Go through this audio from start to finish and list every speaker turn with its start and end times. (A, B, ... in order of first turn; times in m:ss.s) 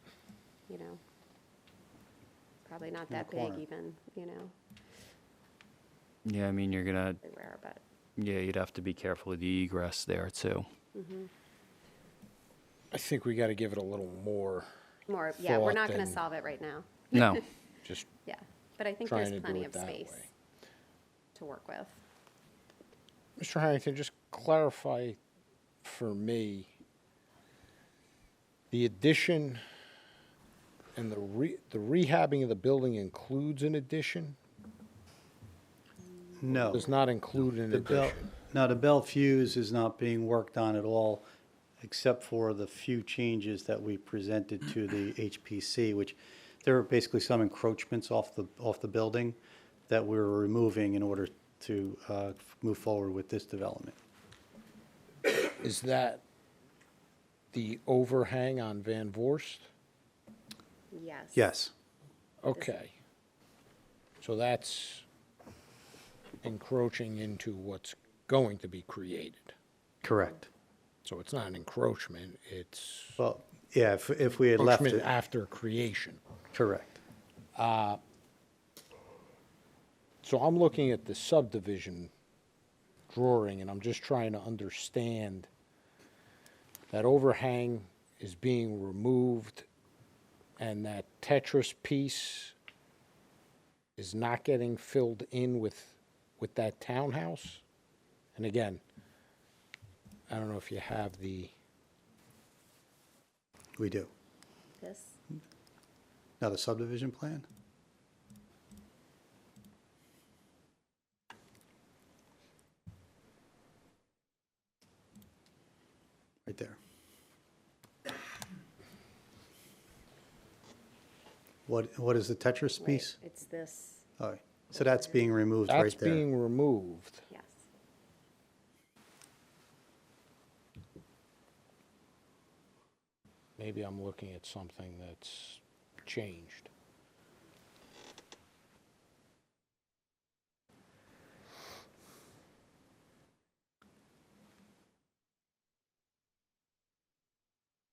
0:00.7-0:01.0 A
0:02.7-0:04.5 A
0:03.1-0:03.6 B
0:06.2-0:07.2 C
0:07.2-0:07.8 A
0:08.2-0:10.7 C
0:10.9-0:11.3 A
0:12.9-0:14.7 D
0:15.1-0:17.4 A
0:15.4-0:16.2 D
0:17.1-0:17.4 C
0:18.2-0:20.2 A
0:19.0-0:20.3 D
0:21.4-0:22.0 A
0:23.4-0:25.2 D
0:25.8-0:26.7 D
0:28.7-0:29.6 D
0:31.0-0:34.4 D
0:36.4-0:36.8 B
0:36.5-0:36.8 A
0:36.6-0:38.3 D
0:37.7-0:41.2 B
0:41.8-0:54.0 B
0:55.6-0:56.2 D
0:57.5-0:59.7 D
1:00.9-1:01.4 A
1:01.4-1:01.7 B
1:02.4-1:03.0 D
1:04.2-1:05.0 D
1:06.4-1:09.6 D
1:10.0-1:10.5 B
1:11.0-1:13.2 D
1:13.2-1:15.2 B
1:14.6-1:16.2 D
1:16.5-1:17.0 B
1:17.6-1:18.0 D
1:20.2-1:22.1 D
1:23.1-1:25.5 D
1:26.9-1:29.7 D
1:30.6-1:32.6 D
1:34.0-1:37.6 D
1:38.4-1:38.8 D
1:40.3-1:41.5 D
1:43.8-1:44.1 B
1:44.8-1:45.2 A
1:46.4-1:47.5 B
1:56.5-1:56.8 B
2:01.7-2:03.2 B
2:02.8-2:04.0 A
2:04.2-2:06.2 B
2:05.7-2:07.3 D
2:07.3-2:07.6 A
2:13.6-2:16.7 D